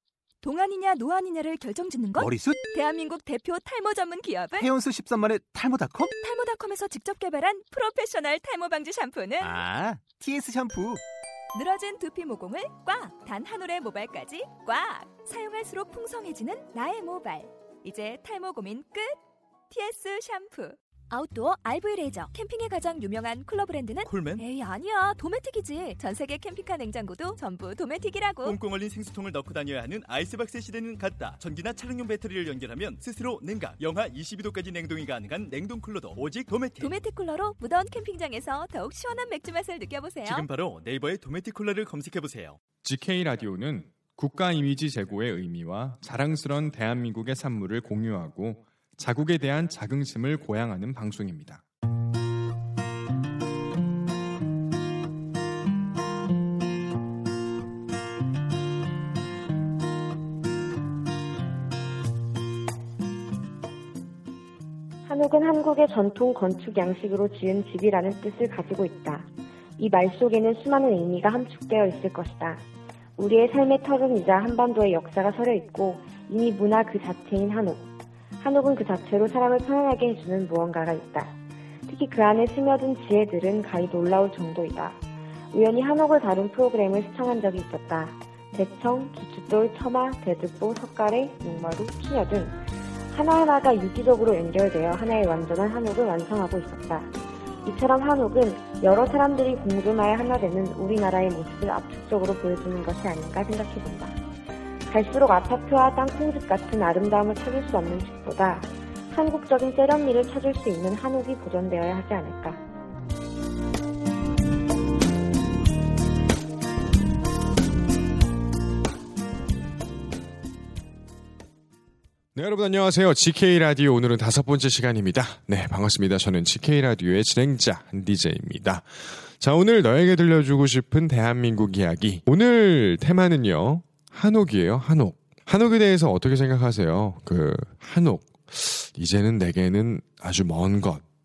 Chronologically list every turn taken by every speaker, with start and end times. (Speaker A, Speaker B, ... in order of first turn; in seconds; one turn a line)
Speaker A: 0.4-2.1
Speaker B: 2.1-2.6
Speaker A: 2.8-4.5
Speaker B: 4.5-6.1
Speaker A: 6.2-9.3
Speaker B: 9.4-11.0
Speaker A: 11.6-19.1
Speaker A: 19.7-24.0
Speaker C: 24.0-24.5
Speaker A: 24.5-28.3
Speaker C: 28.4-37.2
Speaker A: 37.1-40.1
Speaker C: 40.2-42.6
Speaker D: 42.8-51.6
Speaker E: 65.0-72.6
Speaker E: 73.2-77.9
Speaker E: 78.4-92.6
Speaker E: 93.1-97.1
Speaker E: 97.6-104.2
Speaker E: 104.9-112.6
Speaker D: 122.3-141.0